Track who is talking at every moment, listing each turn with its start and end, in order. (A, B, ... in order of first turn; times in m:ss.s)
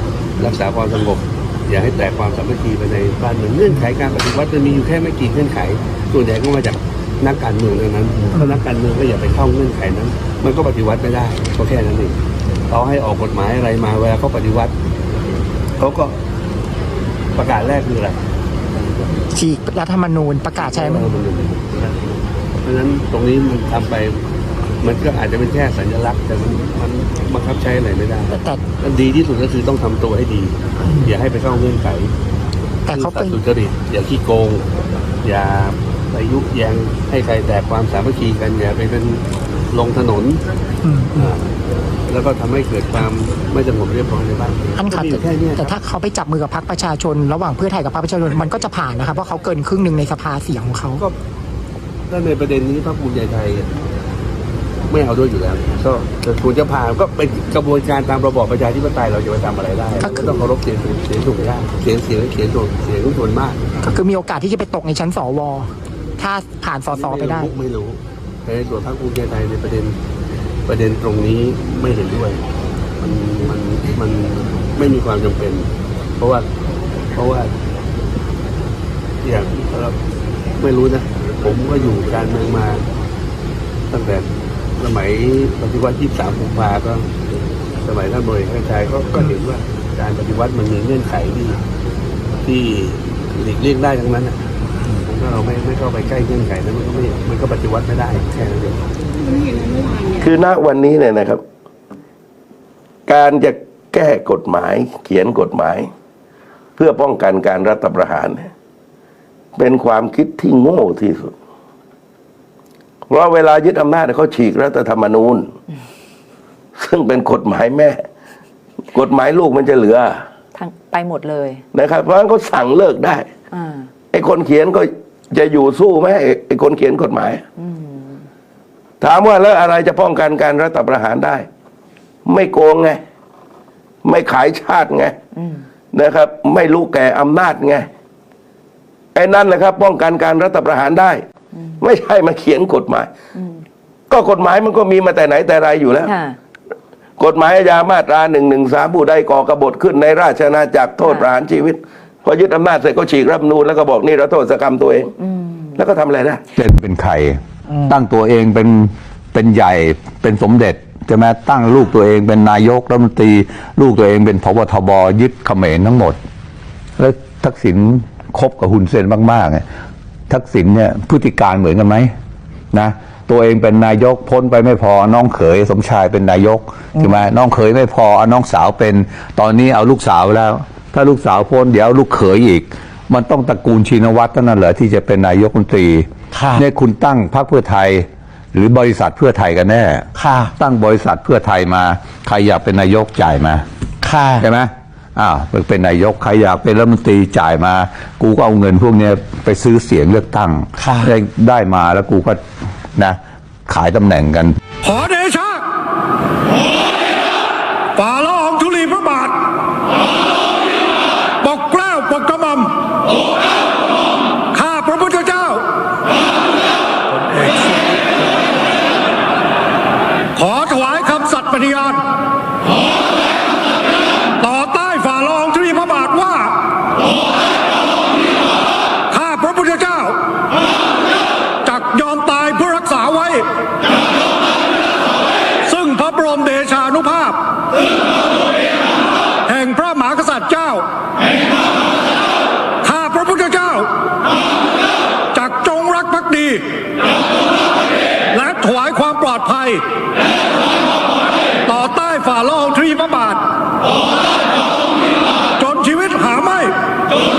0:00.4-0:14.7 A
0:15.8-0:16.2 A
0:17.4-0:18.2 A
0:19.3-0:21.2 B
0:20.6-0:24.2 A
0:24.8-0:32.1 A
0:28.3-0:28.6 B
0:30.8-0:31.1 B
0:32.9-0:33.4 B
0:32.9-0:34.7 A
0:35.2-0:40.4 A
0:40.8-0:41.3 B
0:41.2-0:45.8 A
0:44.8-0:51.0 B
0:52.1-0:53.7 A
0:54.9-1:03.6 A
1:00.0-1:00.4 B
1:03.8-1:07.6 B
1:06.9-1:10.0 A
1:10.7-1:12.4 A
1:13.0-1:16.5 A
1:17.1-1:17.5 A
1:19.2-1:20.0 A
1:20.6-1:22.8 A
1:23.9-1:27.1 A
1:27.8-1:31.6 A
1:32.4-1:38.8 A
1:40.1-1:41.4 C
1:43.1-1:45.9 C
1:46.8-1:48.5 C
1:49.6-1:51.4 C
1:53.1-1:55.5 C
1:56.8-1:58.0 C
1:58.9-2:00.3 C
2:00.5-2:01.7 D
2:01.7-2:03.3 C
2:03.5-2:03.9 D
2:04.1-2:07.4 C
2:07.6-2:08.3 D
2:09.0-2:11.5 C
2:12.3-2:13.0 C
2:14.0-2:15.2 C
2:15.3-2:15.7 D
2:15.9-2:17.9 C
2:19.2-2:21.2 C
2:21.5-2:21.9 D
2:21.8-2:23.1 C
2:23.3-2:23.6 D
2:24.1-2:26.1 C
2:26.0-2:26.4 D
2:27.2-2:35.1 C
2:31.0-2:31.3 D
2:35.2-2:35.8 D
2:35.8-2:36.4 C
2:36.6-2:46.2 E
2:47.0-2:49.7 E
2:50.3-2:52.1 E
2:52.7-3:13.6 E
2:57.0-2:57.3 F
3:06.3-3:06.7 F
3:10.1-3:10.5 F
3:14.0-3:14.5 F
3:14.4-3:22.4 E
3:20.8-3:21.1 F
3:22.9-3:24.6 E
3:24.8-3:25.6 G
3:28.0-3:29.4 G
3:31.4-3:32.7 G
3:34.5-3:35.6 G
3:37.3-3:37.7 G
3:40.4-3:42.0 G
3:44.4-3:46.5 G
3:49.1-3:50.2 G
3:51.6-3:53.5 G
3:55.6-3:57.4 G
3:59.5-4:00.8 G
4:02.8-4:03.9 G
4:05.3-4:06.6 G
4:08.3-4:09.8 G
4:11.7-4:13.4 G
4:15.6-4:16.8 G